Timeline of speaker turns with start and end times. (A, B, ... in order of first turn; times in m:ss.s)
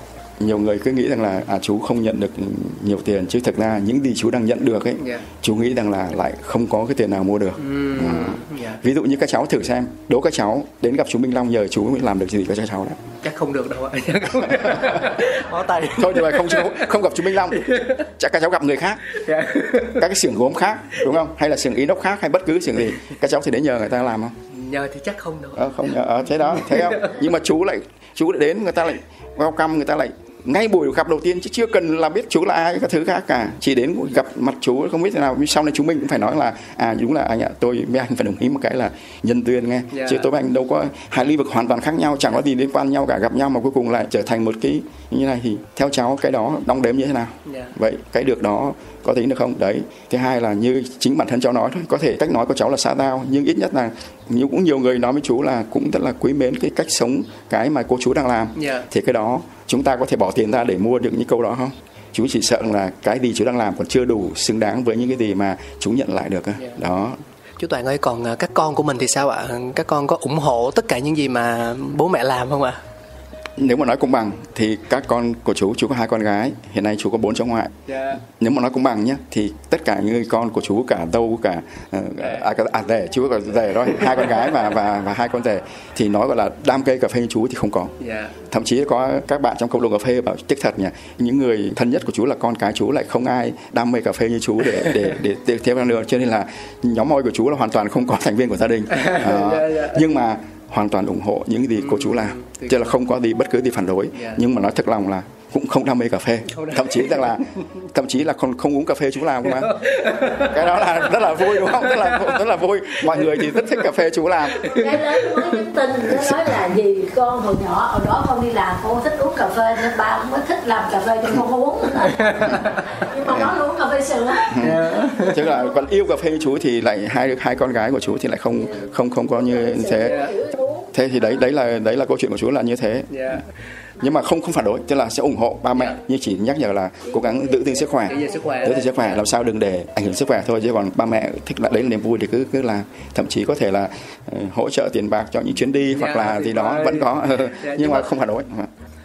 0:00.4-0:13.0 A
0:05.0-0:05.2 B
0:07.6-0:08.8 B
0:13.2-0:16.9 B
0:14.4-0:15.0 A
0:15.9-0:19.0 A
0:17.5-0:18.0 B
0:19.1-0:20.0 B
0:19.9-0:24.4 A
0:24.5-0:25.7 B
0:25.5-1:07.2 A
0:26.5-0:27.2 B
0:39.9-0:40.3 B
0:47.4-0:47.7 B
0:58.6-0:58.8 B
1:07.6-1:12.8 B
1:13.6-1:27.9 A
1:17.9-1:18.2 B
1:22.2-1:22.4 B
1:28.0-1:28.3 B
1:28.5-1:49.8 A
1:38.9-1:40.0 B
1:41.8-1:42.8 B
1:44.1-1:44.4 B
1:46.5-1:47.6 B
1:49.4-1:52.4 B
1:50.4-1:54.7 A
1:53.1-1:53.7 B
1:54.5-1:55.6 B
1:54.7-2:05.8 C
2:02.0-2:02.9 B
2:04.5-2:10.2 A
2:04.6-2:05.4 B
2:09.3-2:10.9 C
2:10.0-2:10.3 B
2:10.9-2:13.4 A
2:13.1-2:13.4 B
2:14.0-2:28.7 A
2:17.1-2:18.3 C
2:18.1-2:19.2 B
2:25.9-2:28.1 B